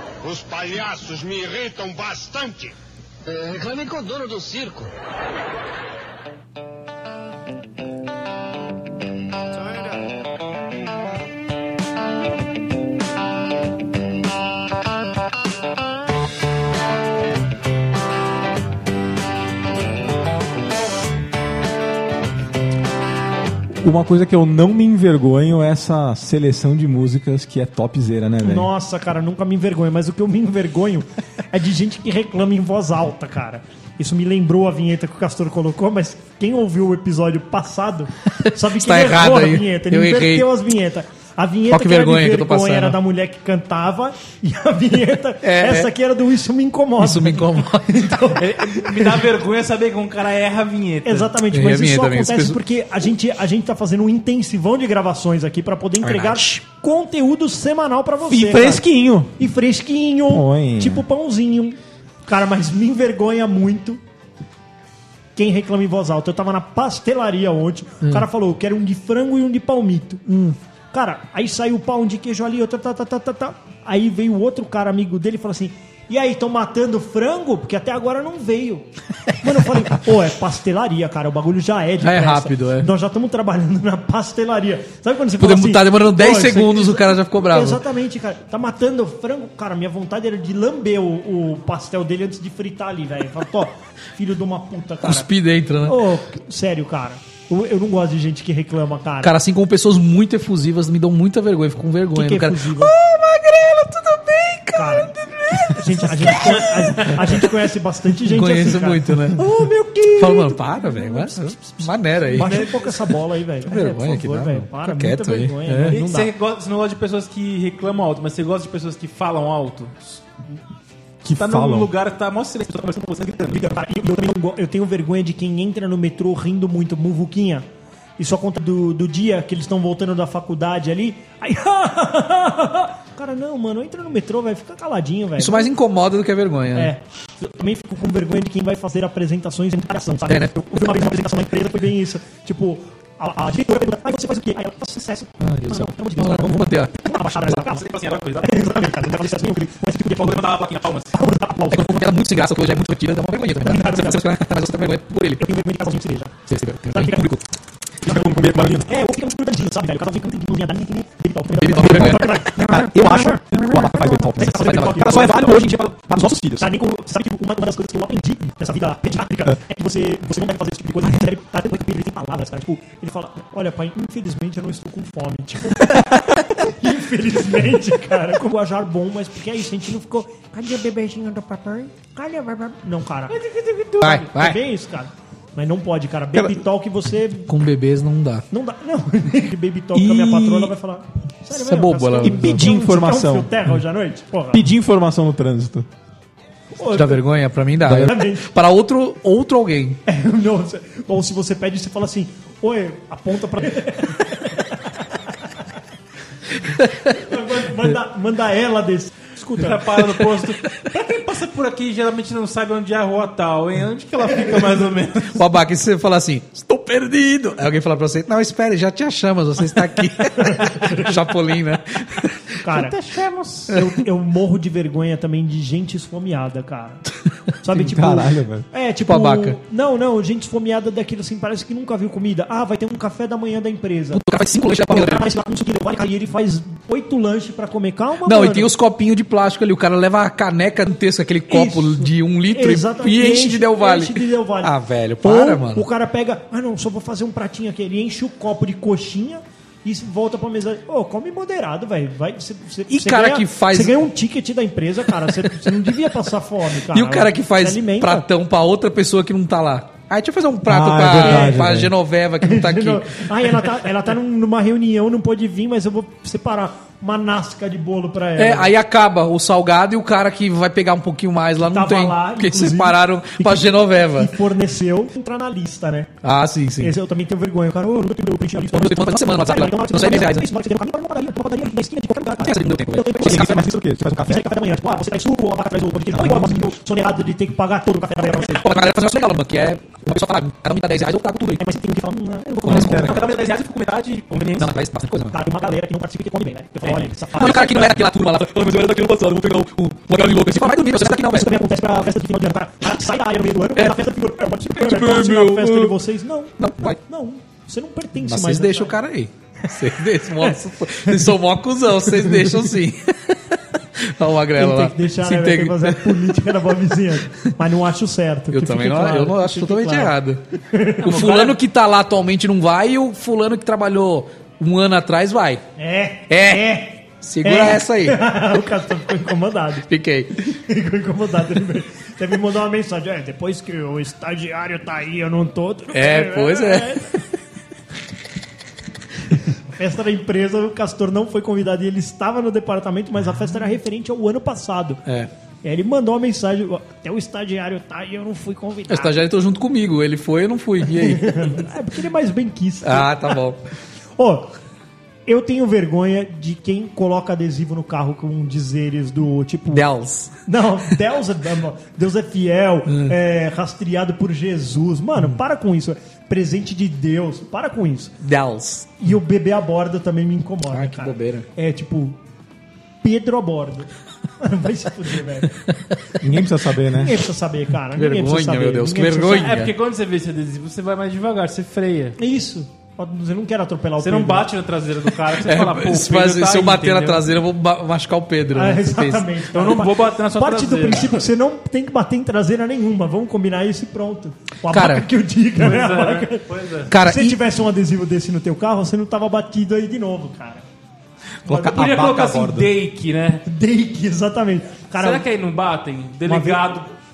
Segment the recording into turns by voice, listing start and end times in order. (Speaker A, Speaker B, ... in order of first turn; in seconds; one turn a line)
Speaker A: 0.2-4.9
Speaker B: 23.7-28.7
Speaker C: 28.4-49.3
Speaker D: 38.4-40.5
Speaker D: 41.7-43.0
Speaker D: 45.4-45.9
Speaker D: 47.0-48.1
Speaker E: 48.4-51.3
Speaker C: 51.0-58.8
Speaker D: 51.5-52.6
Speaker D: 56.0-56.5
Speaker B: 58.3-59.3
Speaker C: 59.4-64.0
Speaker B: 60.3-61.0
Speaker C: 65.3-78.9
Speaker C: 79.4-95.3
Speaker D: 82.0-82.9
Speaker D: 85.4-87.8
Speaker D: 95.0-96.0
Speaker C: 95.8-99.3
Speaker D: 99.2-107.4
Speaker C: 102.1-102.9
Speaker C: 104.7-116.3
Speaker D: 108.2-109.4
Speaker D: 110.1-112.9
Speaker D: 113.7-116.0
Speaker E: 115.9-120.2
Speaker B: 121.2-121.9
Speaker E: 121.3-123.8
Speaker C: 123.5-127.7
Speaker C: 128.2-135.7
Speaker D: 135.4-136.9
Speaker C: 136.7-147.8
Speaker D: 140.3-140.6
Speaker D: 145.5-147.0
Speaker E: 147.2-148.7
Speaker C: 148.4-150.6
Speaker E: 150.0-151.2
Speaker C: 151.1-152.1
Speaker D: 151.7-155.5
Speaker C: 153.6-154.4
Speaker C: 155.3-156.4
Speaker D: 156.5-157.4
Speaker C: 156.9-157.4
Speaker B: 158.0-159.0
Speaker C: 158.0-165.5
Speaker D: 161.5-162.5
Speaker B: 161.8-166.7
Speaker D: 164.6-165.2
Speaker E: 165.0-165.8
Speaker C: 166.6-183.4
Speaker E: 183.3-184.0
Speaker C: 184.0-187.5
Speaker D: 184.0-184.6
Speaker B: 186.3-186.6
Speaker D: 187.5-188.4
Speaker C: 188.5-194.7
Speaker D: 189.9-190.7
Speaker D: 191.5-192.6
Speaker B: 192.2-193.5
Speaker B: 194.5-195.9
Speaker C: 196.8-197.2
Speaker D: 196.9-200.0
Speaker B: 197.8-198.1
Speaker C: 197.9-198.5
Speaker C: 200.1-204.9
Speaker D: 206.6-207.2
Speaker C: 207.1-210.0
Speaker E: 209.6-215.4
Speaker D: 215.3-222.6
Speaker C: 220.4-221.1
Speaker C: 222.6-222.9
Speaker E: 222.7-223.8
Speaker C: 223.7-238.7
Speaker B: 227.7-228.6
Speaker D: 229.1-229.6
Speaker D: 234.2-235.3
Speaker D: 238.2-245.8
Speaker C: 241.5-258.2
Speaker D: 252.9-254.1
Speaker D: 255.3-255.8
Speaker D: 256.9-263.6
Speaker B: 260.6-261.9
Speaker C: 261.1-261.6
Speaker C: 262.4-268.7
Speaker D: 268.4-274.3
Speaker C: 271.6-276.1
Speaker D: 276.2-276.9
Speaker C: 276.8-283.7
Speaker D: 278.7-280.5
Speaker D: 282.4-283.6
Speaker B: 283.2-284.5
Speaker C: 284.2-288.7
Speaker B: 286.1-286.6
Speaker D: 288.4-291.6
Speaker C: 291.5-293.3
Speaker B: 292.6-293.4
Speaker D: 292.8-293.1
Speaker E: 292.9-294.7
Speaker D: 294.5-295.3
Speaker C: 295.3-297.9
Speaker D: 297.3-301.6
Speaker C: 301.2-308.9
Speaker D: 304.8-305.9
Speaker B: 304.9-305.7
Speaker D: 306.6-307.0
Speaker D: 308.2-316.3
Speaker C: 310.4-311.2
Speaker C: 314.5-320.1
Speaker D: 318.5-320.4
Speaker C: 320.7-321.5
Speaker D: 321.0-325.6
Speaker E: 321.1-321.5
Speaker C: 325.8-329.9
Speaker D: 326.3-328.2
Speaker D: 329.9-330.5
Speaker C: 330.5-337.2
Speaker D: 335.9-337.2
Speaker C: 339.5-345.0
Speaker C: 345.6-349.2
Speaker D: 348.9-351.7
Speaker C: 350.9-353.4
Speaker D: 352.8-353.6
Speaker C: 354.2-354.5
Speaker C: 355.3-359.9
Speaker D: 359.7-360.3
Speaker C: 360.4-368.1
Speaker D: 362.9-363.1
Speaker D: 368.2-369.0
Speaker C: 369.0-372.2
Speaker D: 370.7-371.4
Speaker C: 373.0-373.9
Speaker C: 374.4-375.6
Speaker B: 376.2-377.2
Speaker C: 376.9-379.6
Speaker D: 377.9-379.7
Speaker E: 379.2-382.2
Speaker C: 382.2-384.5
Speaker E: 384.0-387.2
Speaker D: 385.3-389.4
Speaker C: 388.5-400.6
Speaker E: 389.5-391.2
Speaker D: 394.7-395.1
Speaker E: 395.6-396.9
Speaker D: 396.9-397.4
Speaker B: 401.4-402.7
Speaker E: 401.5-403.4
Speaker C: 403.4-405.2
Speaker E: 405.0-406.9
Speaker C: 406.2-406.7